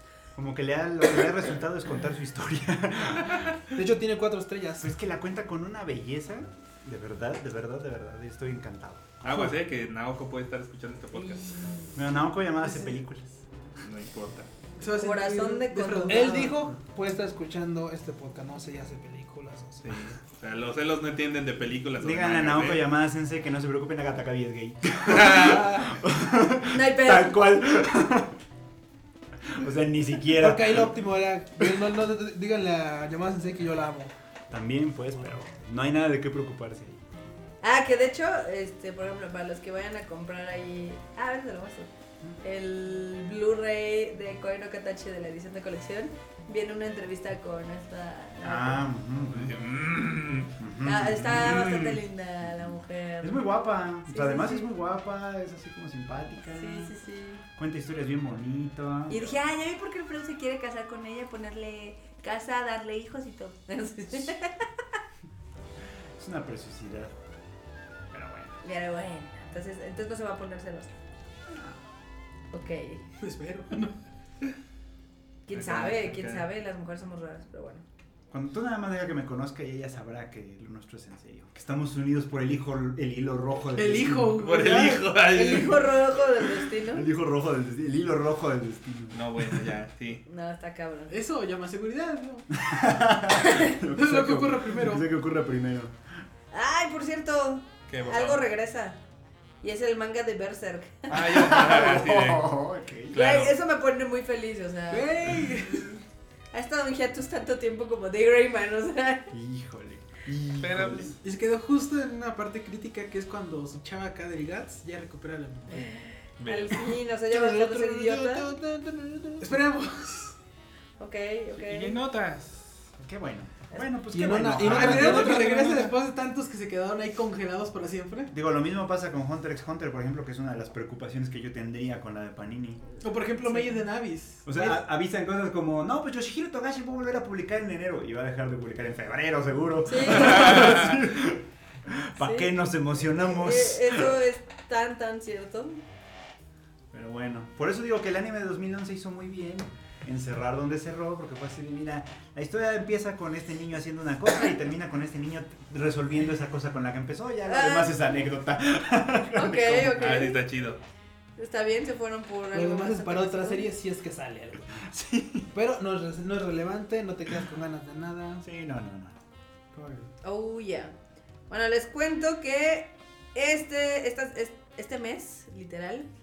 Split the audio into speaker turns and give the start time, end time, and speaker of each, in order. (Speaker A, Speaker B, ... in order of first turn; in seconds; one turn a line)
Speaker A: 0.3-3.5
Speaker B: 3.7-4.9
Speaker A: 4.8-9.3
Speaker C: 9.2-11.5
Speaker D: 11.1-11.9
Speaker A: 11.9-13.3
Speaker C: 13.8-14.5
Speaker E: 14.8-16.6
Speaker D: 14.9-16.5
Speaker B: 16.1-20.1
Speaker C: 19.8-22.8
Speaker A: 22.0-28.4
Speaker C: 25.1-25.6
Speaker D: 26.6-27.5
Speaker A: 29.4-31.0
Speaker B: 30.4-34.1
Speaker A: 34.5-37.0
Speaker D: 37.6-41.9
Speaker D: 42.4-48.8
Speaker A: 48.4-49.6
Speaker C: 49.3-50.5
Speaker A: 50.5-52.7
Speaker D: 50.8-53.5
Speaker A: 53.2-56.9
Speaker D: 54.0-54.7
Speaker D: 56.5-57.4
Speaker A: 57.5-59.3
Speaker D: 59.1-64.6
Speaker A: 66.2-67.1
Speaker A: 68.1-68.6
Speaker D: 68.6-70.9
Speaker A: 71.5-71.8
Speaker D: 72.5-73.0
Speaker E: 73.2-73.9
Speaker D: 75.5-77.8
Speaker A: 75.5-76.5
Speaker A: 78.3-84.7
Speaker E: 83.8-85.0
Speaker C: 84.4-85.9
Speaker D: 85.2-87.1
Speaker A: 86.8-89.7
Speaker C: 89.1-90.2
Speaker D: 90.2-91.2
Speaker E: 91.1-92.5
Speaker A: 92.6-95.9
Speaker D: 93.4-93.7
Speaker E: 93.8-95.1
Speaker D: 96.5-99.0
Speaker C: 97.9-98.4
Speaker D: 99.6-101.1
Speaker C: 101.1-102.5
Speaker A: 101.1-103.2
Speaker C: 103.1-103.5
Speaker D: 103.1-106.0
Speaker E: 104.9-105.9
Speaker D: 106.5-109.3
Speaker A: 109.3-111.2
Speaker C: 110.6-111.1
Speaker E: 111.2-115.8
Speaker D: 115.7-118.5
Speaker C: 116.4-116.9
Speaker B: 117.3-119.5
Speaker E: 119.4-120.3
Speaker D: 121.0-122.0
Speaker C: 121.5-122.6
Speaker A: 123.0-125.5
Speaker B: 124.1-126.0
Speaker E: 124.6-128.3
Speaker A: 128.3-132.8
Speaker E: 133.0-134.8
Speaker D: 133.5-133.7
Speaker A: 134.4-144.2
Speaker D: 139.9-140.6
Speaker C: 140.4-140.7
Speaker D: 142.2-142.5
Speaker D: 143.1-145.8
Speaker A: 146.9-160.1
Speaker D: 157.4-157.9
Speaker D: 159.3-160.4
Speaker C: 159.9-160.8
Speaker D: 161.4-163.7
Speaker B: 162.5-164.7
Speaker A: 164.8-165.5
Speaker B: 165.5-168.4
Speaker A: 168.4-169.2
Speaker B: 169.8-170.1
Speaker D: 170.2-170.9
Speaker D: 171.5-176.1